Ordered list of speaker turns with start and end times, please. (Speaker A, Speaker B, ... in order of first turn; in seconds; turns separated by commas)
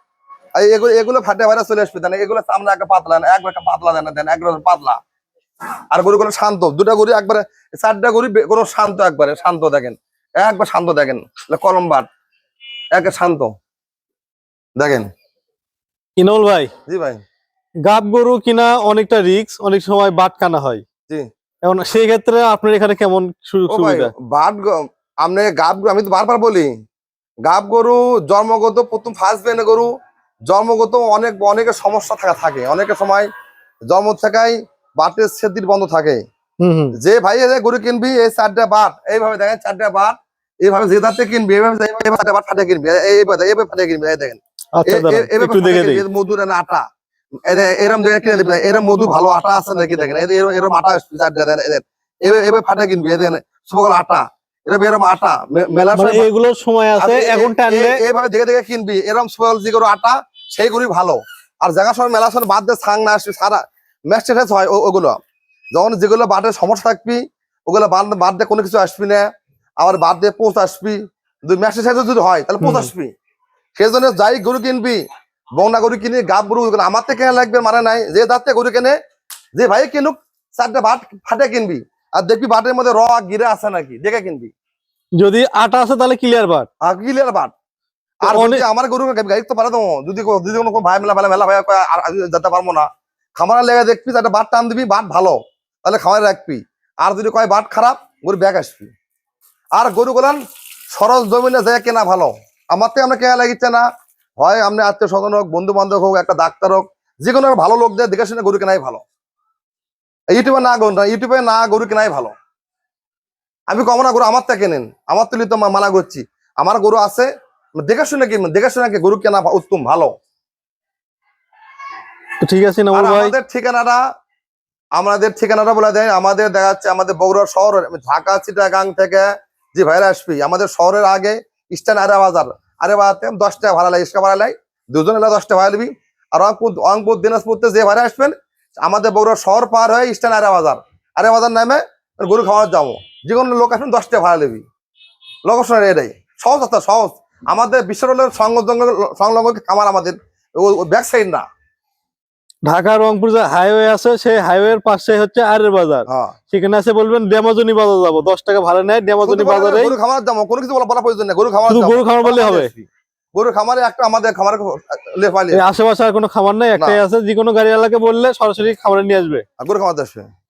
Speaker A: 0.6-5.0, Speaker A: 5.9-12.1, Speaker A: 12.9-13.5, Speaker A: 14.8-15.1, Speaker B: 16.2-16.7, Speaker A: 16.9-17.2, Speaker B: 17.8-20.8, Speaker B: 21.6-24.1, Speaker A: 23.7-26.7, Speaker A: 27.4-29.9, Speaker A: 30.5-33.3, Speaker A: 33.9-36.2, Speaker B: 36.6-37.0, Speaker A: 37.0-46.8, Speaker B: 44.7-46.0, Speaker A: 47.5-56.3, Speaker B: 55.9-58.0, Speaker A: 57.0-65.2, Speaker A: 65.7-69.3, Speaker A: 69.8-73.1, Speaker B: 72.6-72.9, Speaker A: 73.8-75.0, Speaker A: 75.6-78.9, Speaker A: 79.6-84.5, Speaker B: 85.2-86.7, Speaker A: 86.8-87.5, Speaker B: 88.2-88.6, Speaker A: 88.2-98.9, Speaker A: 99.8-100.4, Speaker A: 100.9-103.8, Speaker A: 104.4-109.0, Speaker A: 110.3-112.3, Speaker A: 113.7-117.3, Speaker A: 117.8-120.1, Speaker B: 122.4-123.3, Speaker A: 122.9-124.0, Speaker A: 125.0-144.6, Speaker A: 145.4-151.4, Speaker B: 152.6-159.9, Speaker A: 156.1-156.3, Speaker A: 159.2-165.6, Speaker B: 161.7-162.7, Speaker B: 165.5-169.4, Speaker A: 166.8-167.0, Speaker A: 169.6-170.3